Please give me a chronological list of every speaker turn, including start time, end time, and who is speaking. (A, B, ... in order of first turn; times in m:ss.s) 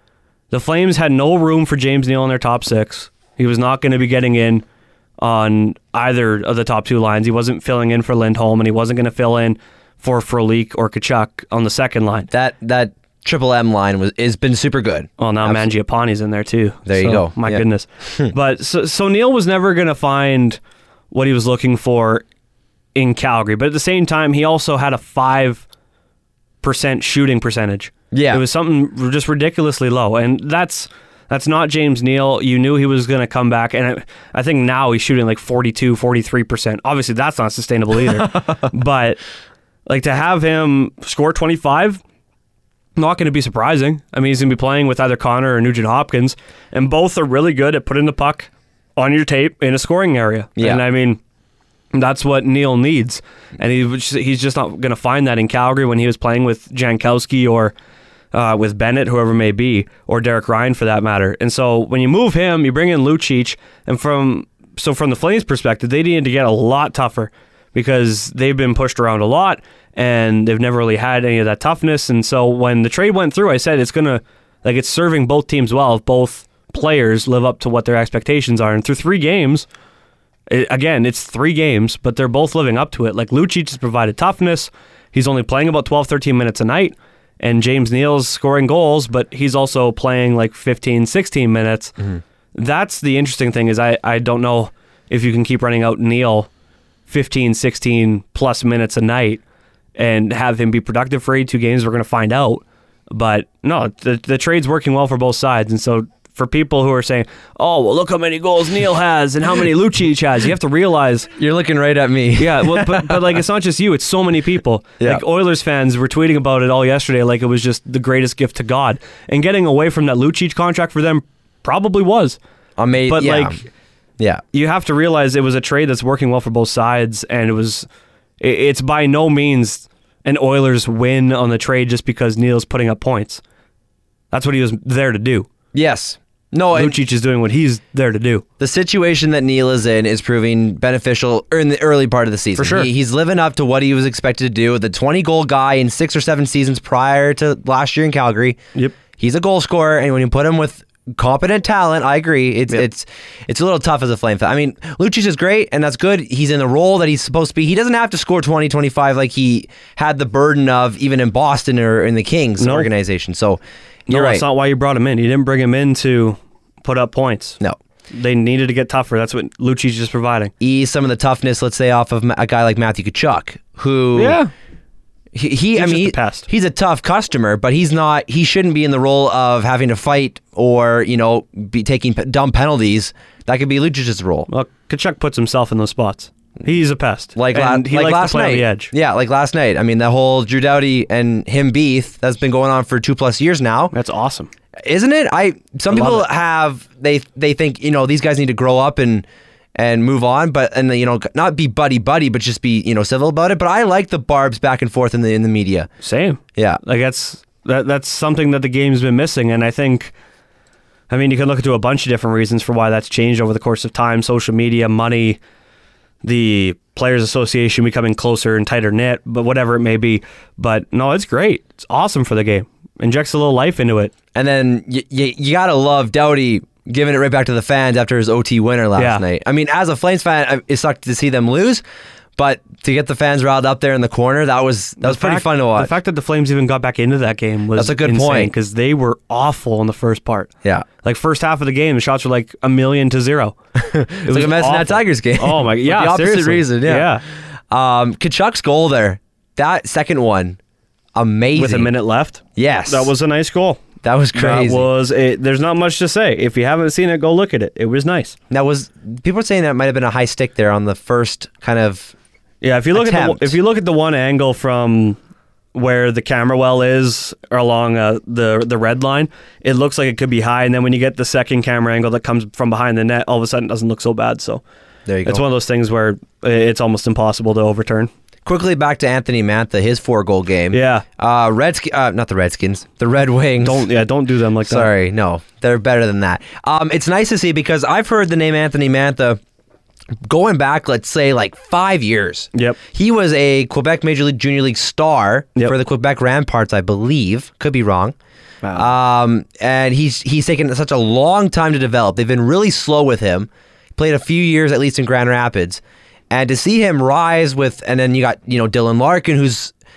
0:00.5-0:04.6 A
0:05.2-0:12.3 A
0:12.3-0:15.6 B
0:15.2-0:20.6 A
0:16.8-0:18.3 B
0:21.1-0:22.2 A
0:22.9-0:25.6 A
0:26.6-0:39.2 A
0:28.1-0:28.4 B
0:38.2-0:38.5 B
0:39.9-0:42.0 A
0:43.0-0:51.2 A
0:50.6-0:50.8 B
0:51.9-0:57.7 A
0:58.3-1:19.7 A
1:20.5-1:31.9 A
1:32.5-1:36.5 A
1:37.1-1:39.4 A
1:40.0-1:51.3 A
1:51.4-1:53.3 B
1:52.4-2:02.4 A
2:02.8-2:03.6 B
2:03.1-2:03.6 A
2:04.5-2:07.9 A
2:08.4-2:13.4 A
2:14.3-2:15.5 A
2:15.7-2:17.0 B
2:16.7-2:18.4 A
2:18.6-2:28.6 B
2:22.5-2:22.9 A
2:29.2-2:44.4 B
2:42.6-2:42.9 A
2:44.1-2:47.6 A
2:48.1-2:50.5 A
2:50.6-2:54.4 B
2:54.1-2:54.5 A
2:55.3-3:04.5 B
2:55.7-2:56.4 A
3:04.5-3:08.9 A
3:07.4-3:13.9 B
3:13.9-3:14.5 A
3:14.8-3:25.9 B
3:15.9-3:16.2 A
3:26.0-3:30.1 A
3:26.5-3:26.8 B
3:31.1-3:35.4 A
3:36.2-3:44.1 A
3:44.3-3:51.8 B
3:49.0-3:49.2 A
3:52.4-3:55.9 B
3:55.0-4:00.5 A
3:57.7-3:58.5 B
4:01.0-4:03.6 A
4:03.8-4:07.2 B
4:04.2-4:07.2 A
4:07.7-4:10.6 B
4:11.1-4:11.9 B
4:11.5-4:13.8 A
4:12.6-4:13.1 B
4:14.0-4:14.9 B
4:14.3-4:18.4 A
4:18.5-4:22.1 B
4:22.6-4:25.2 A
4:22.9-4:23.6 B
4:25.7-4:34.6 A
4:35.0-4:35.4 B
4:35.2-4:38.1 A
4:38.4-4:43.9 B
4:40.7-4:41.0 A
4:43.6-4:44.9 A
4:44.6-4:49.4 B
4:50.2-4:58.1 B
4:58.6-4:58.9 A
4:58.7-5:09.7 B